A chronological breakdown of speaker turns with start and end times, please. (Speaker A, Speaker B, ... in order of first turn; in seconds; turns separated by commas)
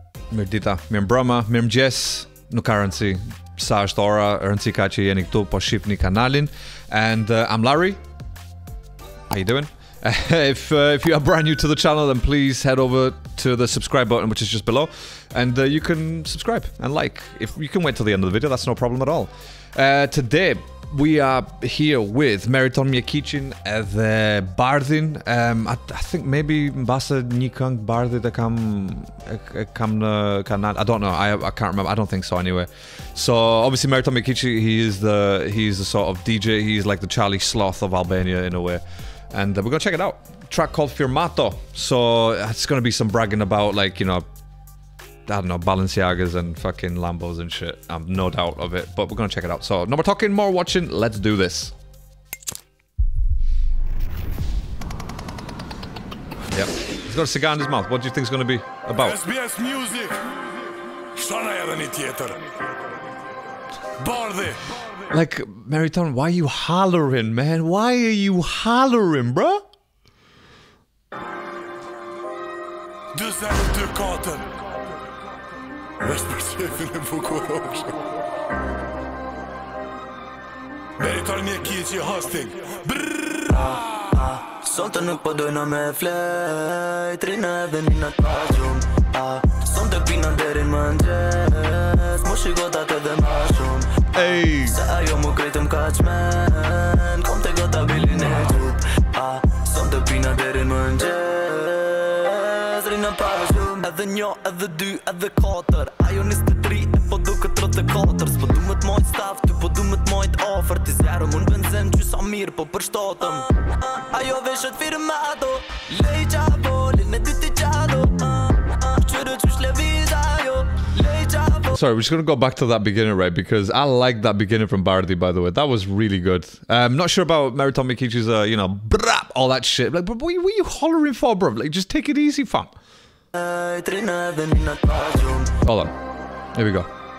Speaker A: 0.3-8.0, Speaker A: 9.3-44.2, Speaker A: 45.3-51.8, Speaker A: 56.5-59.2, Speaker B: 59.0-60.3, Speaker B: 61.1-62.5, Speaker B: 64.0-64.8, Speaker A: 65.1-69.6, Speaker B: 73.1-74.5, Speaker B: 76.0-78.0, Speaker B: 81.0-83.5, Speaker C: 83.5-121.8, Speaker A: 94.2-94.8, Speaker A: 121.7-132.7, Speaker C: 133.3-135.6, Speaker A: 135.6-135.9, Speaker A: 136.5-136.9